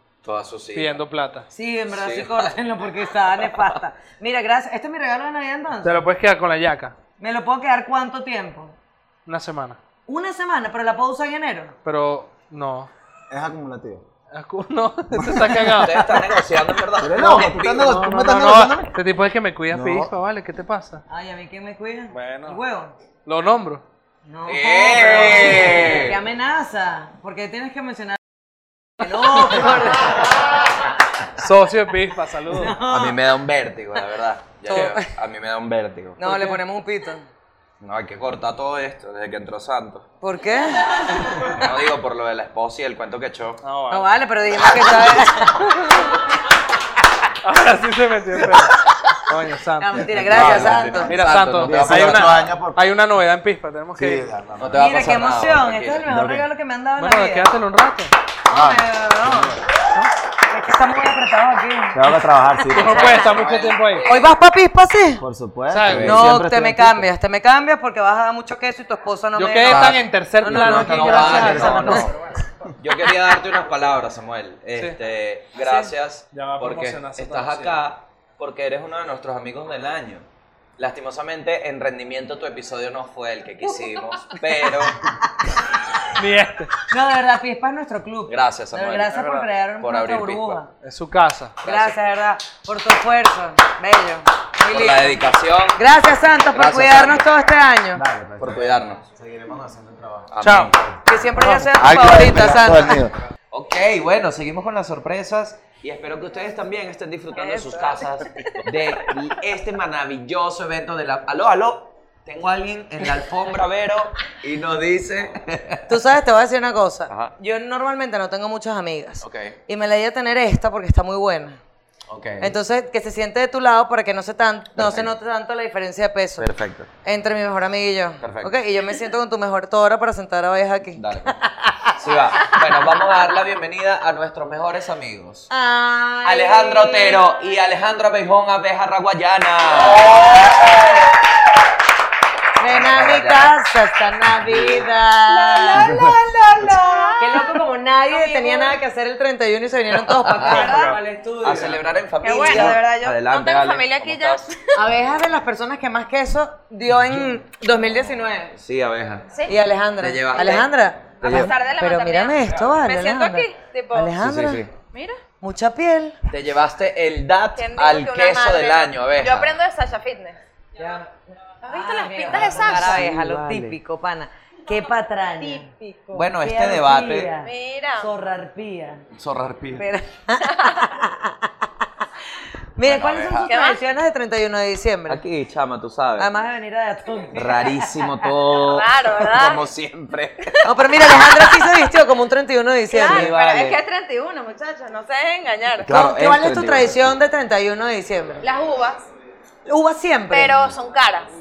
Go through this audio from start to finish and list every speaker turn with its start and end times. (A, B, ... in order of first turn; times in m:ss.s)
0:00.2-0:01.0 A
0:00.7-0:01.5 B
0:01.5-0:06.0 C
0:01.9-0:02.6 A
0:03.4-0:03.8 A
0:05.8-0:07.0 B
0:07.2-0:08.8 C
0:09.3-0:09.8 B
0:10.1-0:11.7 C
0:11.8-0:12.9 B
0:13.3-0:14.0 D
0:14.3-0:16.0 B
0:15.2-0:15.6 D
0:15.7-0:17.9 A
0:17.0-0:18.8 D
0:17.3-0:21.0 B
0:19.7-0:20.1 D
0:21.1-0:22.9 C
0:22.1-0:22.6 B
0:23.3-0:23.8 B
0:24.3-0:28.2 C
0:24.5-0:26.2 A
0:29.0-0:30.3 C
0:31.4-0:32.8 B
0:32.5-0:33.2 C
0:32.9-0:36.2 A
0:34.7-0:35.1 C
0:36.2-0:37.2 C
0:36.2-0:36.6 B
0:37.8-0:40.1 A
0:40.2-0:41.0 C
0:41.4-0:43.6 A
0:43.6-0:44.2 B
0:43.9-0:46.1 C
0:47.4-0:54.3 B
0:49.8-0:51.1 C
0:50.3-0:52.5 A
0:50.4-0:50.9 D
0:51.6-0:52.8 D
0:54.0-0:54.7 D
0:54.6-0:56.1 A
0:54.7-0:57.5 C
0:56.1-0:56.4 D
0:57.0-0:58.1 B
0:58.5-0:59.6 C
0:58.5-0:59.5 D
1:00.5-1:02.1 C
1:02.0-1:03.1 D
1:02.7-1:04.1 B
1:02.8-1:03.9 A
1:02.9-1:03.2 C
1:04.0-1:05.2 C
1:05.2-1:06.7 D
1:05.7-1:06.3 B
1:05.9-1:06.3 A
1:06.0-1:12.1 C
1:09.4-1:12.1 B
1:09.7-1:10.0 A
1:10.7-1:12.1 A
1:11.1-1:12.0 D
1:12.8-1:20.3 A
1:15.6-1:15.9 C
1:16.3-1:17.8 B
1:20.8-1:25.0 A
1:26.2-1:26.7 B
1:26.9-1:30.7 C
1:28.3-1:30.6 A
1:30.8-1:31.6 B
1:31.6-1:32.0 A
1:31.6-1:35.2 C
1:34.7-1:35.8 A
1:35.8-1:38.0 C
1:36.5-1:37.3 A
1:38.0-1:41.0 D
1:38.4-1:39.0 A
1:40.3-1:40.8 A
1:40.4-1:40.8 B
1:41.1-1:43.0 C
1:41.4-1:41.8 B
1:41.8-1:43.2 D
1:43.5-1:55.9 A
1:47.4-1:48.2 C
1:55.9-2:01.6 C
1:57.1-1:57.3 A
1:59.2-1:59.6 A
2:02.1-2:02.6 A
2:02.4-2:06.5 C
2:04.8-2:05.2 A
2:06.4-2:06.9 A
2:07.0-2:11.9 C
2:08.2-2:08.6 A
2:11.0-2:11.4 A
2:11.9-2:15.5 A
2:15.5-2:17.2 C
2:16.2-2:20.3 A
2:22.6-2:26.0 C
2:22.7-2:23.5 A
2:24.4-2:24.9 A
2:25.3-2:28.8 E
2:26.0-2:26.8 A
2:27.2-2:31.8 C
2:30.1-2:30.7 A
2:30.5-2:31.0 E
2:31.4-2:34.5 A
2:32.2-2:34.7 E
2:34.7-2:38.5 C
2:38.5-2:39.3 A
2:39.3-2:39.6 E
2:39.5-2:44.6 C
2:40.0-2:41.5 A
2:40.4-2:40.6 E
2:41.2-2:44.2 E
2:44.2-2:44.7 A
2:44.8-2:45.2 E
2:45.4-2:46.2 C
2:46.3-2:49.6 A
2:47.6-2:50.4 E
2:50.8-2:51.1 C
2:51.6-2:53.1 E
2:51.6-2:55.7 C
2:52.3-2:53.8 A
2:55.4-2:56.3 E
2:56.1-2:57.3 A
2:56.4-2:59.0 C
2:57.4-2:58.1 E
2:59.2-2:59.9 A
2:59.8-3:01.5 C
3:00.4-3:00.8 E
3:02.8-3:05.2 C
3:02.8-3:03.5 A
3:03.5-3:03.8 E
3:05.1-3:06.3 A
3:06.2-3:08.0 C
3:07.3-3:10.6 A
3:08.6-3:09.6 E
3:10.6-3:13.3 C
3:11.3-3:11.7 E
3:12.9-3:15.9 E
3:13.0-3:13.8 A
3:15.8-3:17.1 A
3:15.9-3:18.4 C
3:18.4-3:19.1 E
3:19.7-3:20.6 C
3:20.3-3:21.3 E